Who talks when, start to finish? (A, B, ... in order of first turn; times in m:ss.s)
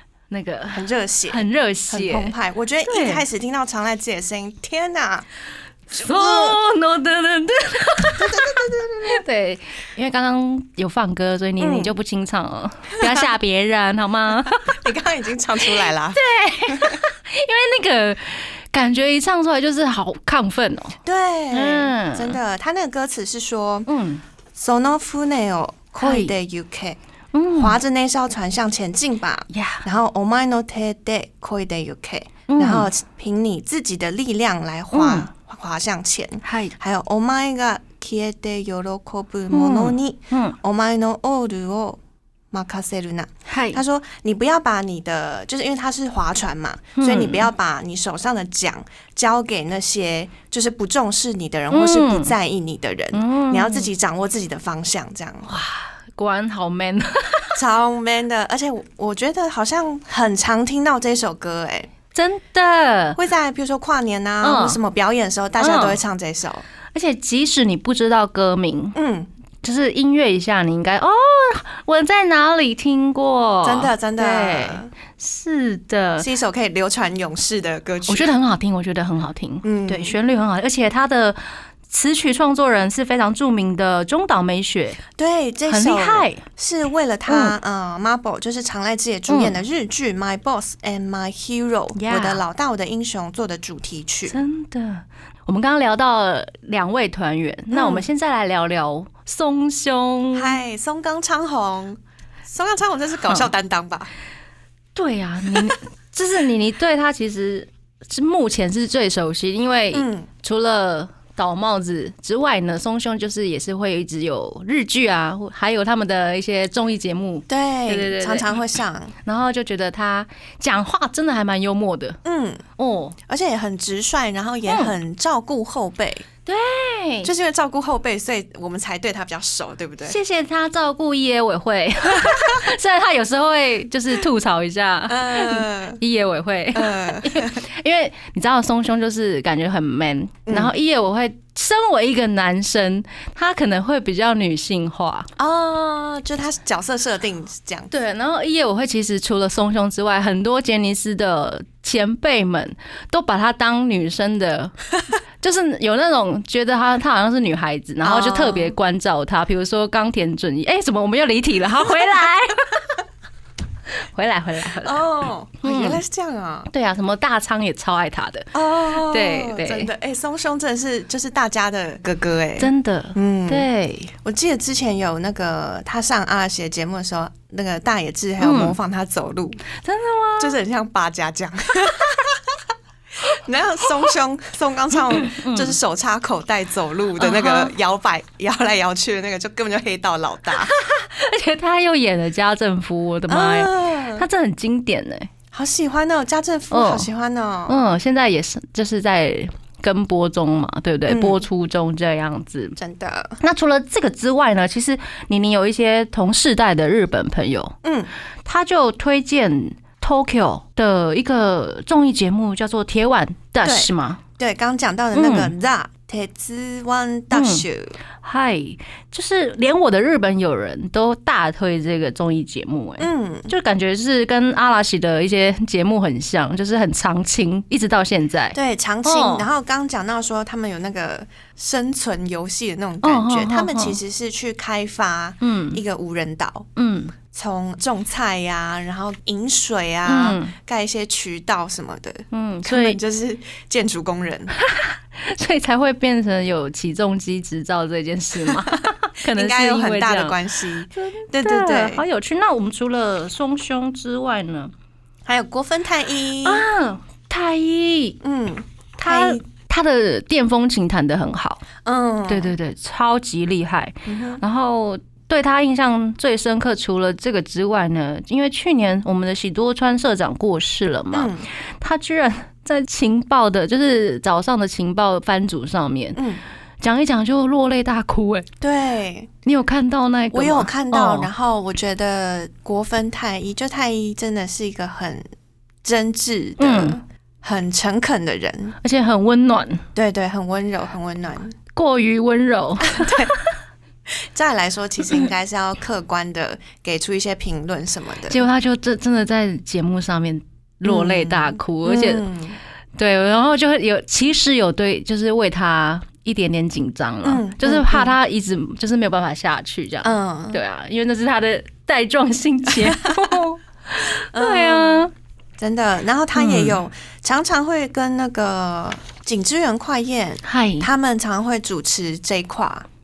0:00.3-0:02.3 A
0:00.7-0:05.3 B
0:02.9-0:03.2 A
0:05.9-0:06.6 B
0:05.9-0:14.8 A
0:08.2-0:09.2 B
0:11.6-0:11.9 B
0:14.5-0:17.0 B
0:16.1-0:21.0 A
0:21.0-0:23.9 B
0:21.5-0:22.4 A
0:23.9-0:24.2 A
0:24.6-0:27.0 B
0:26.0-0:26.3 A
0:27.3-0:27.8 A
0:27.6-0:42.0 B
0:29.5-0:29.8 A
0:32.5-0:32.9 A
0:34.9-0:35.3 A
0:36.4-0:36.8 A
0:39.5-0:40.6 A
0:42.5-0:55.5 B
0:43.5-0:43.8 A
0:47.0-0:47.5 A
0:51.7-0:52.3 A
0:53.1-0:53.9 A
0:55.5-0:57.6 A
0:57.6-1:01.9 B
1:02.1-1:03.2 A
1:03.2-1:06.6 B
1:04.4-1:04.8 A
1:05.6-1:06.0 A
1:06.9-1:09.0 A
1:09.0-1:09.3 B
1:09.6-1:16.3 A
1:13.6-1:14.9 B
1:16.2-1:18.3 B
1:18.1-1:25.0 A
1:19.6-1:20.1 B
1:25.2-1:34.4 B
1:25.7-1:26.4 A
1:27.3-1:27.6 A
1:29.3-1:29.6 A
1:32.0-1:32.4 A
1:34.3-1:40.6 A
1:37.7-1:38.1 B
1:40.3-1:44.1 B
1:45.0-1:58.6 A
1:49.9-1:50.3 B
1:57.5-1:59.1 B
1:59.2-2:02.2 A
2:02.2-2:02.6 B
2:02.8-2:03.2 A
2:03.3-2:06.2 B
2:04.7-2:04.9 A
2:06.5-2:07.3 A
2:07.2-2:10.2 B
2:10.0-2:25.3 A
2:15.1-2:16.0 B
2:16.8-2:17.6 B
2:20.5-2:20.7 B
2:25.4-2:27.9 B
2:27.9-2:34.7 A
2:35.4-2:42.9 A
2:38.0-2:38.8 B
2:44.0-2:45.0 A
2:44.8-2:46.7 B
2:45.6-2:46.0 A
2:46.7-2:49.9 A
2:48.5-2:53.7 B
2:52.6-2:54.1 A
2:54.2-2:59.6 B
2:58.4-2:58.8 A
2:59.8-3:00.6 A
3:00.4-3:02.4 B
3:03.3-3:10.7 B
3:05.1-3:05.8 A
3:07.2-3:07.7 A
3:10.6-3:15.3 A
3:13.3-3:14.2 B
3:15.5-3:17.8 B
3:16.7-3:17.1 A
3:17.7-3:22.8 A
3:21.1-3:21.4 B
3:22.8-3:23.4 B
3:23.4-3:27.8 A
3:27.8-3:28.1 B
3:28.4-3:34.2 A
3:33.6-3:38.0 B
3:35.1-3:35.5 A
3:37.3-3:37.6 A
3:38.2-3:49.5 A
3:43.0-3:43.5 B
3:48.5-3:56.7 B
3:53.0-3:54.0 A
3:55.4-3:55.8 A
3:56.8-3:57.2 A
3:57.2-4:04.5 B
4:00.1-4:00.5 A
4:02.3-4:03.0 A
4:04.6-4:10.4 A
4:08.5-4:12.0 B
4:10.9-4:14.7 A
4:15.2-4:16.7 B
4:16.4-4:18.2 A
4:18.2-4:19.4 B
4:19.0-4:21.6 A
4:21.8-4:22.5 B
4:22.3-4:36.2 A
4:24.0-4:24.4 B
4:31.1-4:31.5 B
4:36.2-4:36.4 B
4:36.8-4:38.5 A
4:38.6-4:39.3 B
4:39.4-4:41.3 A
4:40.3-4:45.2 B
4:45.8-4:48.8 B
4:46.6-4:47.0 A
4:48.8-4:49.8 A
4:50.0-4:51.5 B
4:51.7-4:53.6 A
4:52.8-4:53.3 B
4:54.1-4:58.4 B
4:58.3-5:02.2 A
5:00.8-5:02.6 B
5:03.0-5:15.1 A
5:07.2-5:08.2 B
5:10.0-5:10.6 B
5:12.8-5:13.3 B
5:14.3-5:22.9 B
5:16.3-5:16.8 A
5:20.4-5:20.9 A